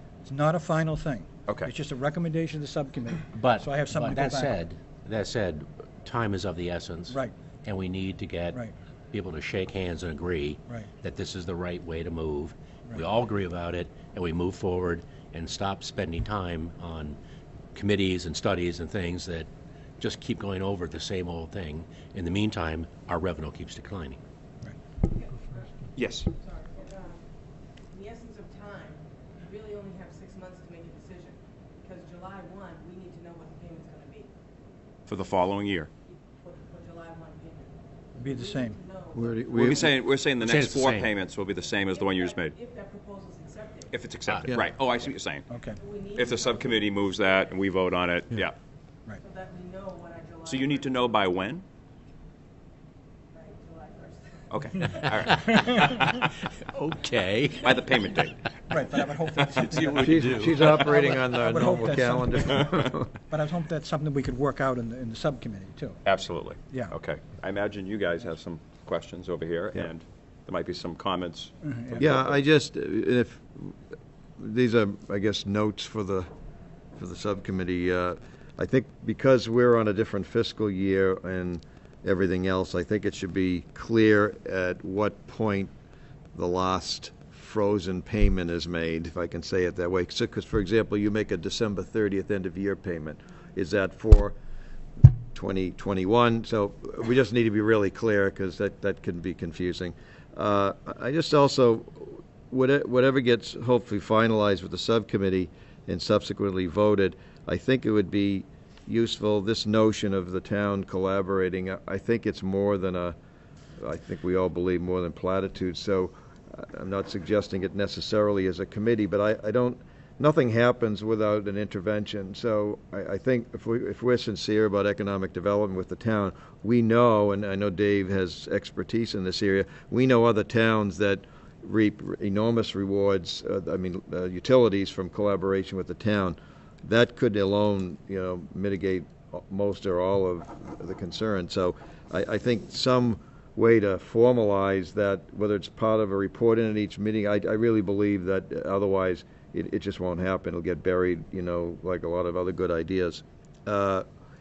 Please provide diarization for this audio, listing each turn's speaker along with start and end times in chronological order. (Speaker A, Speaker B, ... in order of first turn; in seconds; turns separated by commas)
Speaker A: 0.2-4.6, Speaker B: 1.5-1.7, Speaker C: 3.3-8.6, Speaker A: 7.1-7.3, Speaker C: 9.1-17.2, Speaker C: 17.7-19.5, Speaker C: 20.0-24.2, Speaker D: 25.1-27.2, Speaker B: 25.9-26.3, Speaker D: 27.9-34.3, Speaker B: 35.1-35.9, Speaker D: 36.3-39.7, Speaker A: 38.2-38.8, Speaker E: 39.1-40.0, Speaker B: 39.5-42.5, Speaker C: 40.4-41.1, Speaker D: 41.9-43.9, Speaker B: 43.9-45.5, Speaker A: 45.5-45.8, Speaker D: 45.8-46.9, Speaker B: 46.1-48.5, Speaker D: 49.2-50.9, Speaker B: 50.5-51.6, Speaker D: 53.3-54.4, Speaker B: 54.5-56.0, Speaker C: 55.2-58.2, Speaker B: 57.6-58.3, Speaker A: 58.7-62.8, Speaker C: 59.5-60.8, Speaker E: 60.0-63.1, Speaker A: 63.3-66.0, Speaker B: 66.0-72.4, Speaker A: 66.7-66.9, Speaker A: 71.6-72.2, Speaker E: 72.0-73.8, Speaker E: 74.4-76.3, Speaker E: 77.0-85.7, Speaker E: 86.3-94.3, Speaker E: 95.3-113.2, Speaker E: 113.8-154.0